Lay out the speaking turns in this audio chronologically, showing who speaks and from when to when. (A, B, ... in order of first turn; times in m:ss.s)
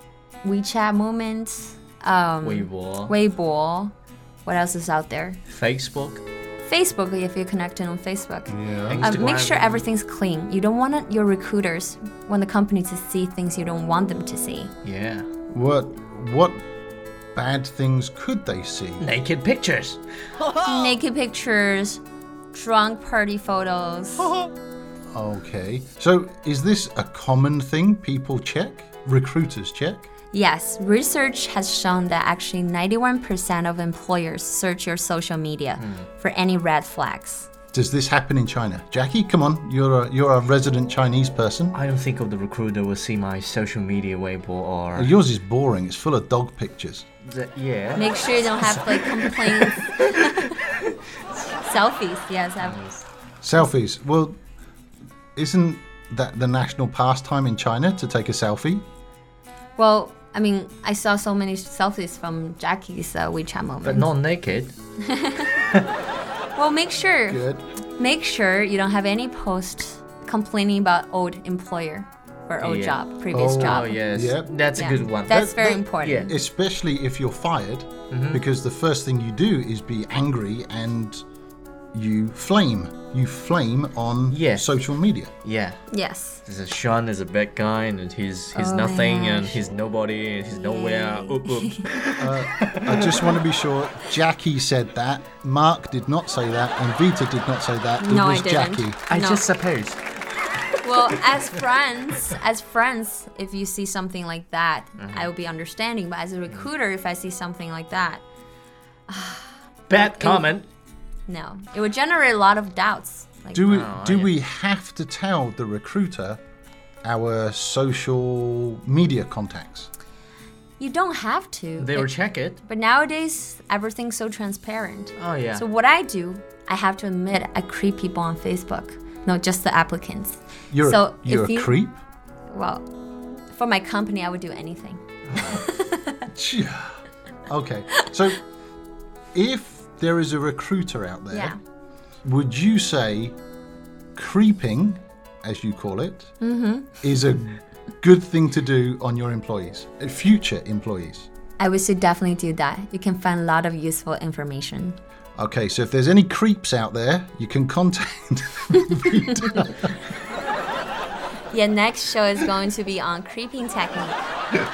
0:00.4-0:03.9 A
0:02.4-0:03.1 B
0:04.5-0:05.4 A
0:05.5-0:06.2 B
0:06.6-0:14.7 A
0:08.5-0:09.1 C
0:08.9-0:09.9 B
0:14.8-0:15.3 B
0:15.5-0:16.6 C
0:17.4-0:19.1 C
0:19.0-0:20.8 B
0:20.6-0:22.0 A
0:22.5-0:24.3 A
0:25.1-0:30.1 C
0:30.3-0:37.5 A
0:35.8-0:36.1 B
0:37.7-0:41.8 C
0:41.7-0:45.2 B
0:45.0-0:47.1 C
0:47.3-0:50.6 B
0:48.0-0:50.6 A
0:51.5-0:53.0 A
0:52.6-0:52.9 B
0:53.4-0:54.4 C
0:55.4-0:58.8 C
0:59.8-1:04.1 A
1:03.8-1:04.7 B
1:05.0-1:05.6 A
1:06.6-1:07.4 A
1:07.3-1:07.6 C
1:08.0-1:14.0 A
1:12.6-1:15.5 B
1:13.3-1:14.5 C
1:14.8-1:16.4 A
1:15.3-1:21.2 C
1:16.0-1:16.3 B
1:18.1-1:18.4 B
1:21.9-1:25.3 C
1:24.3-1:24.8 B
1:25.4-1:25.8 B
1:25.9-1:26.4 A
1:26.4-1:33.4 B
1:28.5-1:29.6 A
1:30.5-1:31.9 A
1:32.2-1:39.0 C
1:38.0-1:39.4 A
1:39.1-1:40.0 B
1:40.6-1:41.5 B
1:40.8-1:48.2 A
1:45.0-1:45.3 B
1:49.1-1:50.5 A
1:49.9-1:50.7 B
1:51.3-1:53.7 A
1:53.5-1:56.4 C
1:53.7-1:54.4 B
1:57.0-1:59.9 C
2:00.8-2:11.8 A
2:01.8-2:02.6 B
2:05.2-2:05.6 B
2:10.7-2:12.0 C
2:12.5-2:12.9 A
2:13.5-2:16.3 A
2:16.3-2:18.4 C
2:19.3-2:21.6 C
2:21.3-2:21.6 A
2:22.2-2:23.4 C
2:24.2-2:26.3 C
2:26.4-2:27.0 A
2:27.0-2:31.3 C
2:31.6-2:35.0 A
2:35.4-2:39.9 C
2:38.7-2:39.5 A
2:41.5-2:44.2 A